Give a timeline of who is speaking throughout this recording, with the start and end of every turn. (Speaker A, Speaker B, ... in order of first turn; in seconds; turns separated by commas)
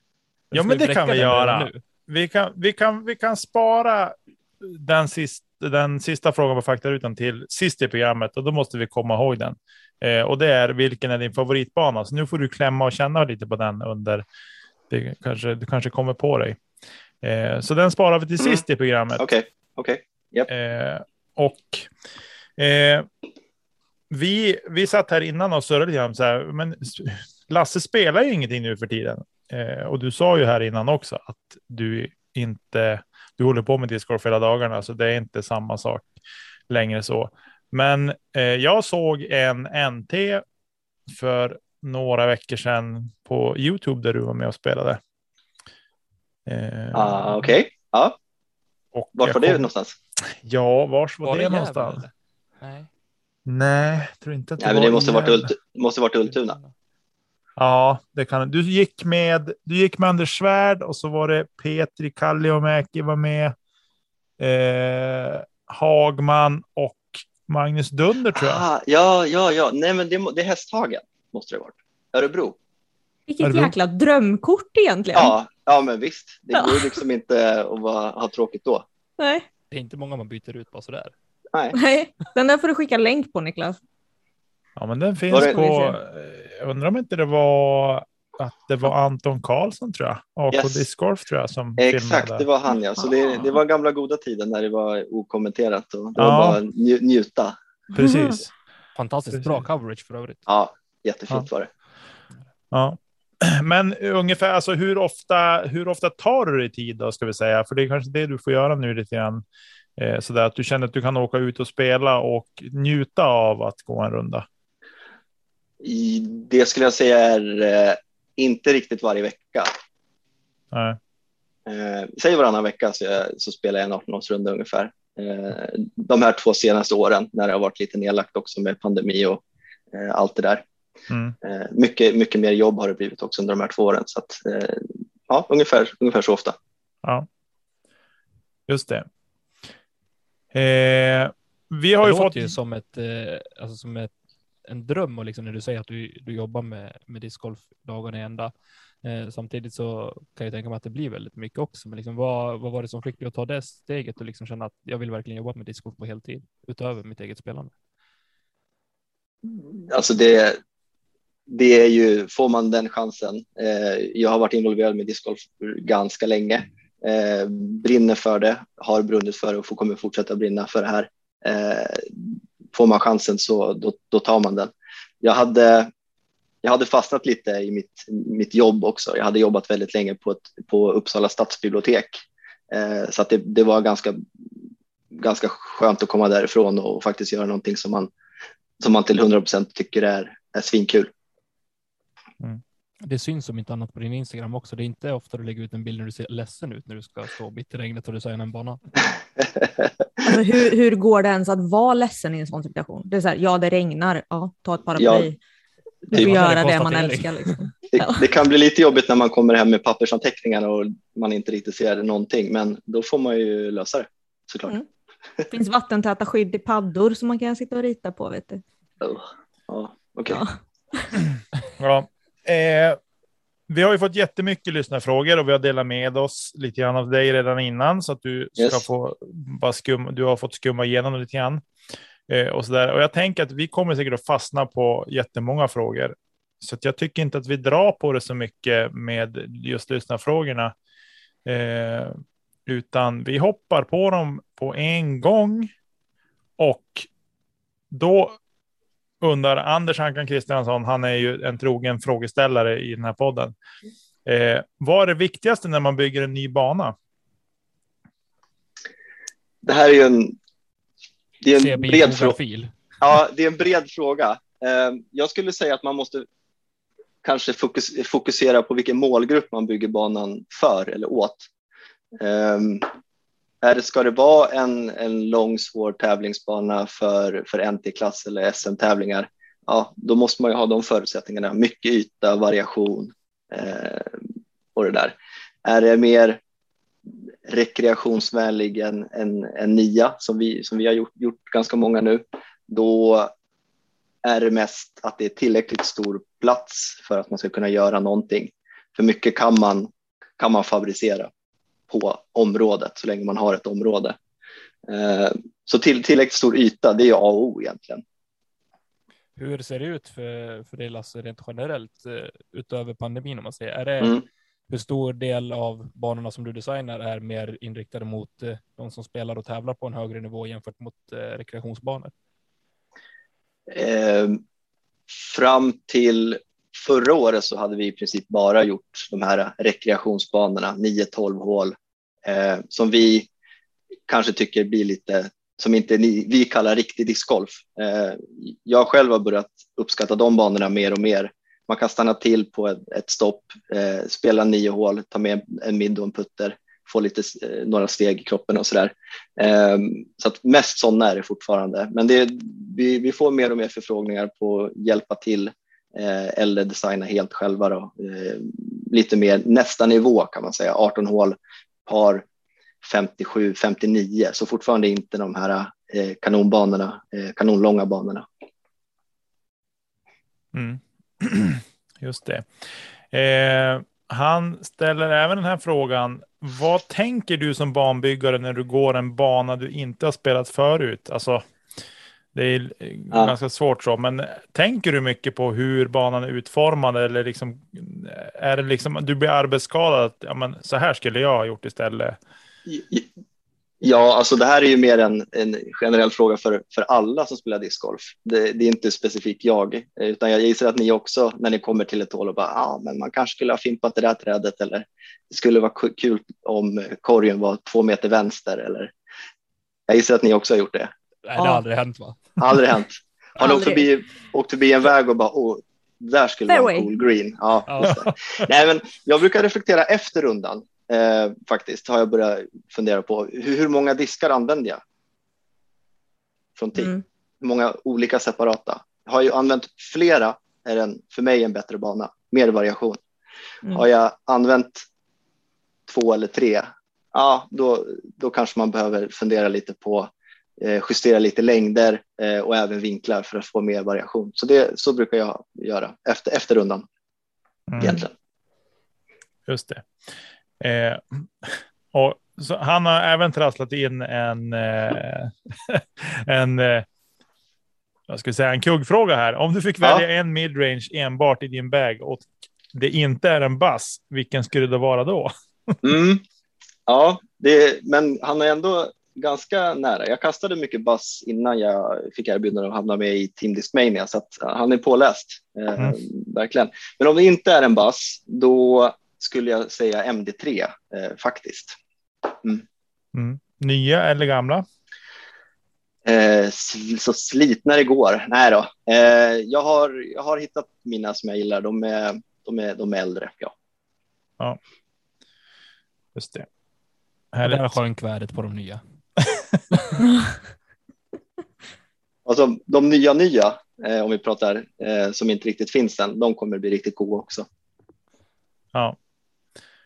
Speaker A: 0.5-1.8, Speaker B: 0.5-14.2, Speaker B: 14.9-16.6, Speaker B: 17.2-19.2, Speaker C: 19.2-20.5, Speaker B: 20.5-21.9, Speaker B: 22.6-23.1, Speaker B: 24.1-36.1, Speaker B: 36.7-40.4, Speaker B: 41.1-45.0, Speaker B: 46.5-47.6, Speaker C: 46.9-48.2, Speaker B: 48.9-49.7, Speaker C: 49.1-49.9, Speaker B: 50.3-52.0, Speaker A: 51.2-52.9, Speaker B: 53.5-55.5, Speaker C: 54.6-56.6, Speaker A: 56.4-56.7, Speaker B: 57.6-63.5, Speaker B: 64.4-68.6, Speaker C: 68.3-72.6, Speaker D: 73.3-75.3, Speaker B: 73.4-73.7, Speaker C: 75.1-78.8, Speaker D: 76.5-76.8, Speaker D: 79.2-79.5, Speaker A: 79.7-81.1, Speaker D: 81.7-83.8, Speaker B: 84.8-92.4, Speaker C: 85.3-85.6, Speaker D: 85.3-86.0, Speaker C: 90.5-90.8, Speaker C: 91.8-97.5, Speaker B: 96.2-96.6, Speaker B: 97.9-98.5, Speaker D: 97.9-98.4, Speaker A: 98.9-100.4, Speaker B: 99.3-99.6, Speaker C: 100.5-101.7, Speaker B: 102.7-109.4, Speaker B: 110.0-114.5, Speaker C: 115.8-119.7, Speaker B: 120.7-121.0, Speaker C: 121.7-130.6, Speaker B: 131.1-131.3, Speaker C: 131.4-136.6, Speaker B: 138.7-139.1, Speaker B: 140.5-142.5, Speaker A: 142.0-144.1, Speaker A: 144.7-148.5, Speaker A: 149.0-157.7, Speaker C: 159.4-160.6, Speaker C: 161.5-175.9, Speaker C: 176.6-184.2, Speaker C: 185.1-188.1, Speaker C: 188.8-191.1, Speaker A: 193.0-198.8, Speaker C: 199.6-199.9, Speaker D: 200.2-205.4, Speaker C: 205.0-205.3, Speaker C: 206.1-206.3, Speaker D: 206.1-208.2, Speaker A: 206.1-207.6, Speaker C: 207.9-214.7, Speaker D: 215.5-218.6, Speaker C: 219.0-220.4, Speaker D: 220.3-221.1, Speaker B: 221.1-223.0, Speaker B: 223.7-231.6, Speaker C: 228.6-228.8, Speaker B: 232.3-240.7, Speaker B: 241.4-245.7, Speaker B: 246.6-247.1, Speaker B: 247.9-248.4, Speaker B: 249.2-253.5, Speaker B: 254.2-256.9, Speaker C: 259.6-260.4, Speaker C: 261.4-262.4, Speaker A: 261.5-262.8, Speaker C: 263.0-266.2, Speaker C: 267.2-271.5, Speaker C: 272.2-272.9, Speaker C: 273.6-284.2, Speaker C: 284.8-286.4, Speaker C: 287.4-293.3, Speaker C: 294.2-301.3, Speaker C: 301.9-304.1, Speaker C: 304.9-308.0, Speaker A: 309.4-322.1, Speaker C: 323.7-324.4, Speaker C: 325.1-333.3, Speaker C: 334.1-362.2, Speaker C: 362.8-368.3, Speaker B: 370.5-381.4, Speaker B: 382.3-392.2, Speaker C: 392.7-393.1, Speaker C: 393.8-408.9, Speaker C: 409.9-410.9, Speaker A: 411.2-412.6, Speaker C: 412.4-424.8, Speaker D: 413.4-413.8, Speaker D: 416.5-416.9, Speaker A: 417.7-418.1, Speaker C: 426.6-433.0, Speaker D: 426.8-427.0, Speaker C: 433.7-434.8, Speaker C: 435.9-446.8, Speaker B: 447.7-448.0, Speaker C: 447.8-448.1, Speaker B: 449.5-449.9, Speaker B: 450.6-456.9, Speaker B: 458.1-465.8, Speaker C: 465.8-466.2, Speaker C: 466.9-482.6, Speaker B: 483.1-484.6, Speaker C: 486.0-493.5, Speaker B: 496.1-496.4, Speaker B: 497.3-497.8, Speaker A: 497.4-498.8, Speaker C: 502.2-507.4